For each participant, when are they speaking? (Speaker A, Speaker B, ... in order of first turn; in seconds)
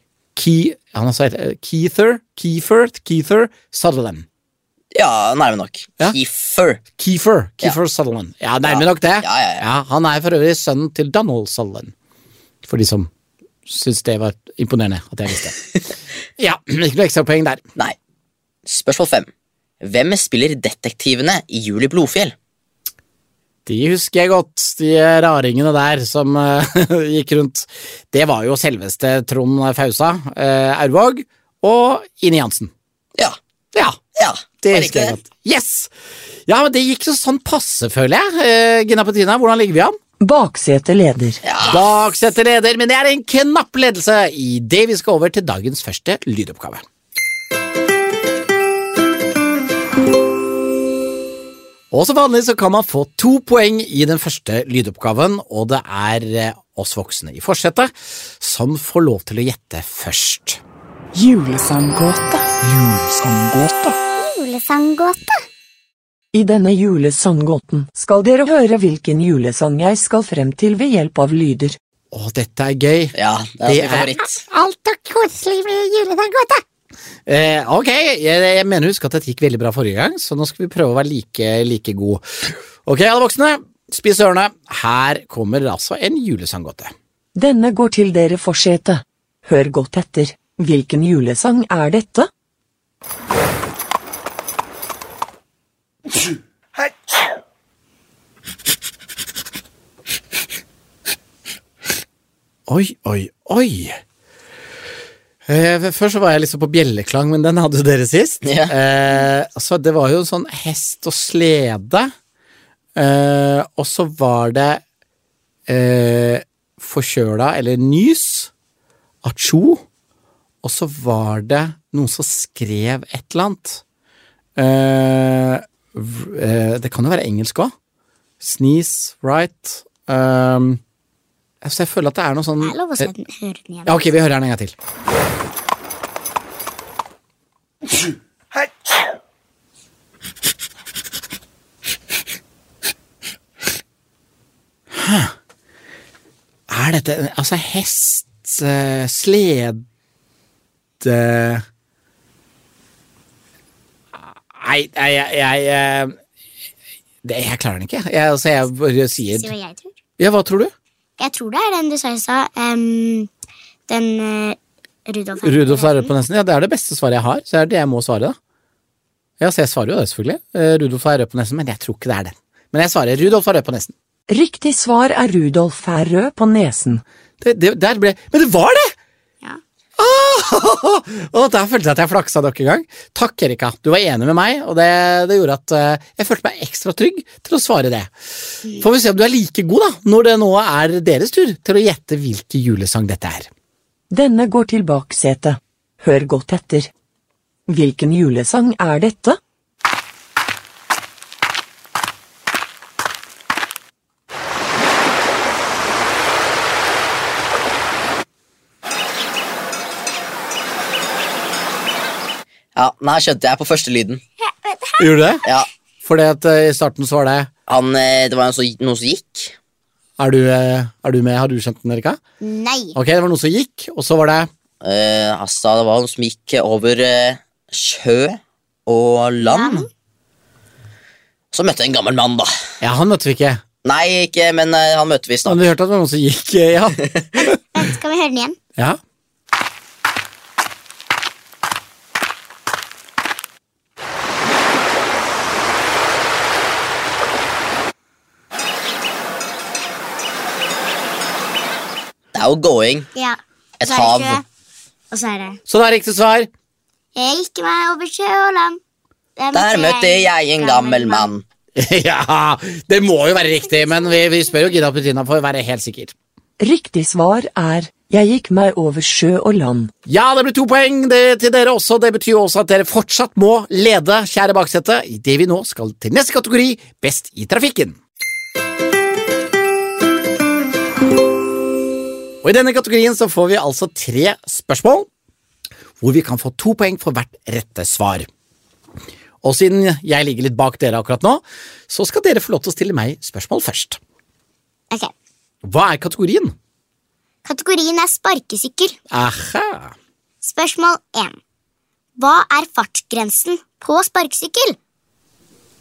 Speaker A: 0.3-4.2, 7.0-11.9, 12.6-13.1, 13.7-15.6, 16.4-17.6, 23.6-32.7, 33.7-34.0, 34.6-35.9, 36.5-40.0, 41.6-46.8, 51.9-60.6, 72.1-76.6, 77.2-86.9, 102.7-104.0, 105.5-112.1, 113.0-114.8, 115.7-118.5, 119.2-119.8, 120.6-123.8, 124.6-127.7, 128.4-130.8, 131.6-133.1, 133.8-134.7, 144.9-145.3, 146.7-149.8, 151.0-151.6, 154.2-156.2, 157.2-159.5, 160.2-160.7, 165.4-168.3, 169.4-173.9, 177.4-178.9, 180.0-188.1, 188.6-193.5, 215.0-215.4, 216.0-217.5, 220.2-222.2, 222.9-224.5, 232.8-233.6, 235.4-237.6, 255.7-256.5, 261.8-266.1, 270.1-278.0, 282.4-285.1, 286.0-288.3, 289.4-294.0, 295.6-296.5, 299.1-299.9
Speaker B: 4.9-6.8, 8.6-9.6, 18.6-19.3, 19.8-22.3, 34.1-35.1, 41.4-41.8, 73.1-74.4, 108.4-108.7, 212.8-214.2, 217.7-219.5, 224.8-229.9, 231.5-232.5, 233.8-235.6, 252.3-253.1, 253.8-254.4, 259.5-261.4
Speaker C: 40.2-41.4, 61.1-63.9, 66.3-71.8, 87.3-92.3, 174.3-177.0, 194.1-196.9, 197.7-199.4, 266.6-269.9
Speaker D: 64.2-65.4, 132.6-134.0, 159.3-159.9, 161.2-163.3, 163.9-166.1, 214.6-215.1, 222.4-223.0, 229.4-229.9, 237.7-238.6, 253.1-254.4, 255.1-255.6, 257.1-258.8, 259.4-261.3, 297.4-299.0, 300.4-301.4, 302.2-304.8